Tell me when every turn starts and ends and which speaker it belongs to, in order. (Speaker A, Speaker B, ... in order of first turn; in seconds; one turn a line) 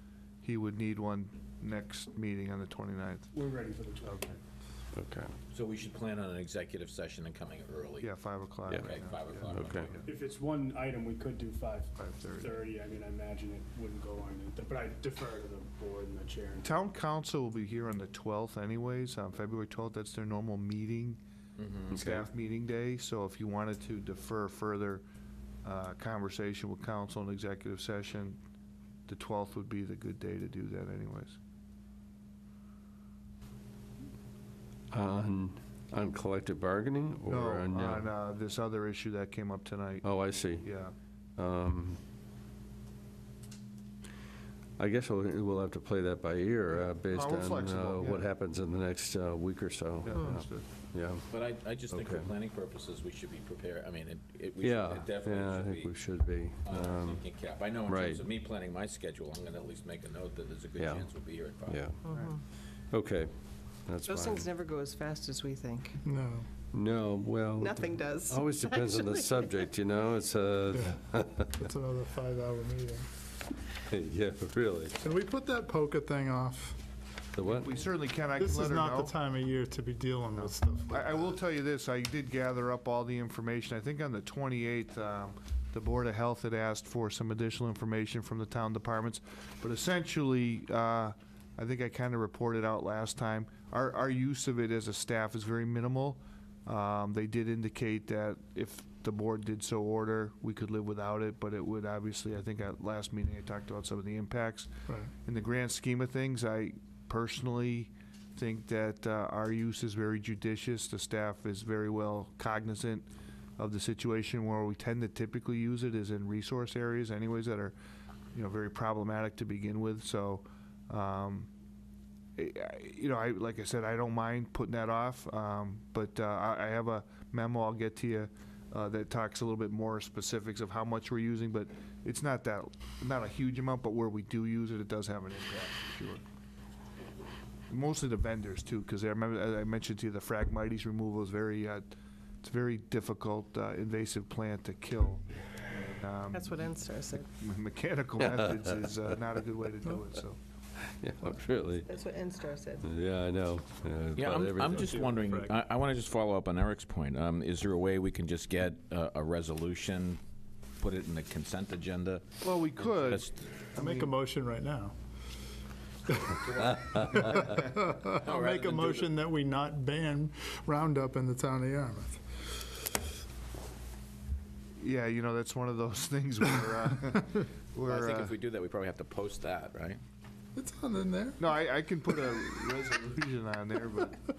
Speaker A: 0.4-3.3
Speaker B: 3.3-4.4
Speaker A: 4.0-4.3
Speaker C: 4.9-5.3
Speaker D: 5.5-8.1
Speaker A: 8.0-10.1
Speaker D: 8.7-9.9
Speaker C: 9.5-9.9
Speaker B: 10.1-16.7
Speaker A: 11.9-12.5
Speaker A: 16.6-21.2
Speaker D: 21.6-22.2
Speaker A: 21.9-25.0
Speaker C: 22.0-22.2
Speaker A: 25.6-28.4
Speaker A: 29.1-31.4
Speaker C: 34.9-38.1
Speaker A: 37.2-40.0
Speaker C: 40.0-40.6
Speaker A: 40.6-40.9
Speaker C: 41.4-42.0
Speaker C: 44.8-51.2
Speaker A: 47.1-48.3
Speaker A: 50.0-50.7
Speaker D: 51.3-55.9
Speaker C: 51.9-52.3
Speaker C: 54.6-57.2
Speaker D: 56.6-61.9
Speaker C: 57.9-58.2
Speaker C: 60.8-62.0
Speaker E: 62.0-62.4
Speaker A: 62.1-62.3
Speaker C: 62.9-63.3
Speaker C: 63.8-64.5
Speaker E: 64.1-66.0
Speaker F: 66.0-66.5
Speaker C: 66.7-71.6
Speaker E: 67.6-69.4
Speaker F: 70.7-73.1
Speaker C: 73.9-75.0
Speaker F: 75.0-76.8
Speaker C: 77.3-77.7
Speaker A: 77.6-79.2
Speaker F: 78.4-81.2
Speaker A: 80.3-104.7
Speaker A: 105.2-113.1
Speaker A: 113.6-117.7
Speaker A: 118.3-121.5
Speaker A: 122.3-136.2
Speaker A: 137.7-146.7
Speaker E: 146.3-147.3
Speaker A: 147.3-150.4
Speaker C: 148.2-148.8
Speaker C: 150.9-151.9
Speaker E: 151.9-152.9
Speaker C: 152.8-155.1
Speaker D: 154.1-160.2
Speaker F: 154.8-155.5
Speaker D: 160.8-163.5
Speaker A: 162.4-164.1
Speaker F: 163.8-164.9
Speaker D: 166.1-167.7
Speaker F: 167.1-172.6
Speaker D: 168.2-169.1
Speaker A: 174.8-178.3
Speaker D: 177.9-180.0
Speaker F: 180.6-181.5
Speaker A: 181.4-184.2